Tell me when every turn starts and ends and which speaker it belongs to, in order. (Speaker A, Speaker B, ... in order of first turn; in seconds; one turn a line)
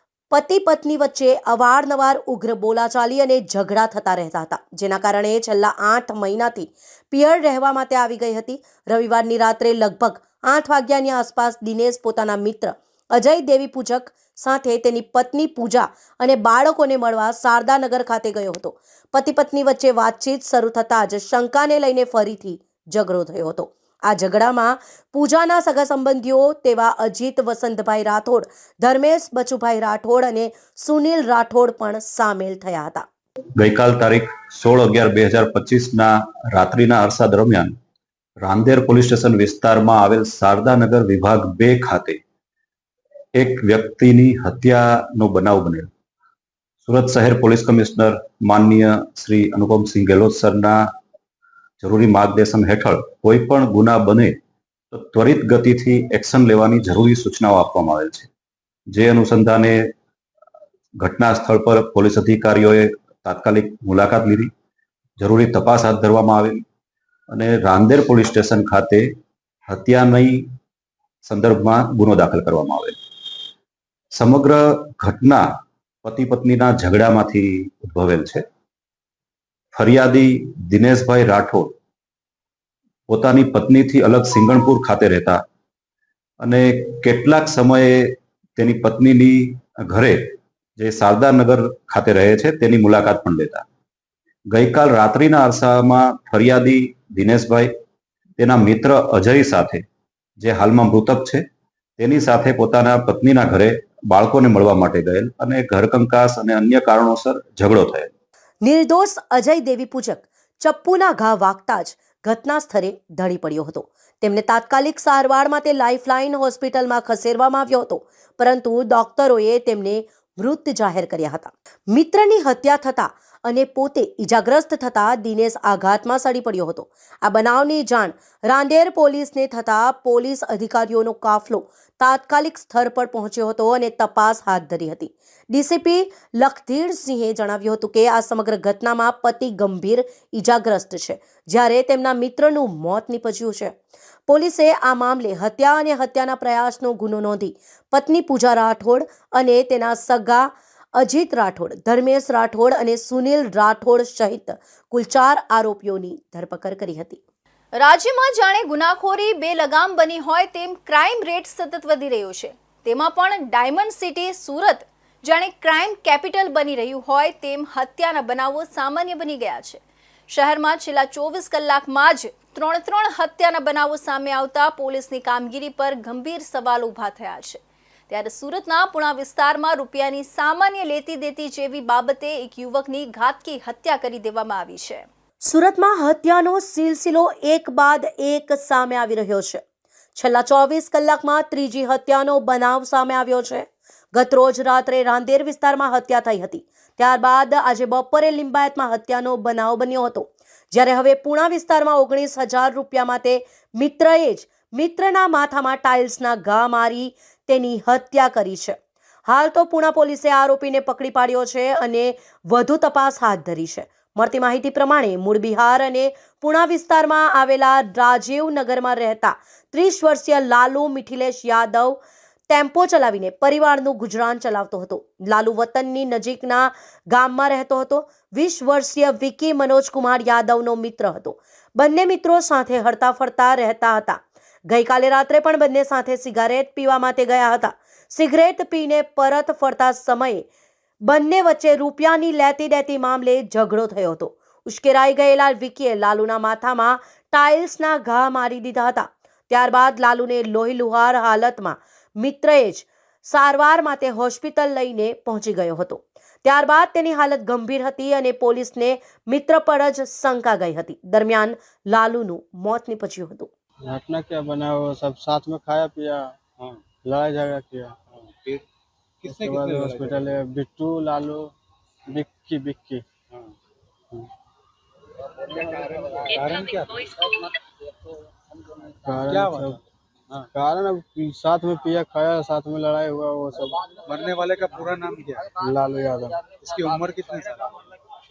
Speaker A: 0.3-33.0
Speaker B: 33.6-37.8
Speaker B: 38.4-42.2
Speaker B: 43.3-45.9
Speaker B: 46.8-50.9
Speaker B: 51.8-54.4
Speaker B: 54.9-58.3
Speaker B: 58.9-59.9
Speaker B: 61.0-64.5
Speaker B: 65.2-66.6
Speaker B: 67.3-69.1
Speaker B: 69.7-70.5
Speaker B: 71.2-73.0
Speaker B: 74.1-75.5
Speaker B: 76.0-78.4
Speaker B: 79.7-81.7
Speaker B: 83.1-85.4
Speaker B: 86.4-93.7
Speaker B: 94.5-97.7
Speaker B: 98.4-99.8
Speaker B: 100.4-101.4
Speaker B: 102.0-108.1
Speaker A: 108.6-143.8
Speaker A: 144.3-157.2
Speaker C: 157.8-185.1
Speaker A: 185.4-189.6
Speaker A: 190.2-208.8
Speaker A: 209.3-240.4
Speaker A: 241.0-263.5
Speaker D: 263.9-266.4
Speaker D: 267.0-268.0
Speaker E: 268.1-268.6
Speaker E: 269.2-270.4
Speaker D: 269.2-271.5
Speaker D: 272.1-273.1
Speaker E: 276.3-277.1
Speaker D: 279.1-279.8
Speaker E: 279.2-280.5
Speaker D: 280.5-283.8
Speaker E: 284.0-285.5
Speaker D: 285.6-286.4
Speaker E: 286.5-287.7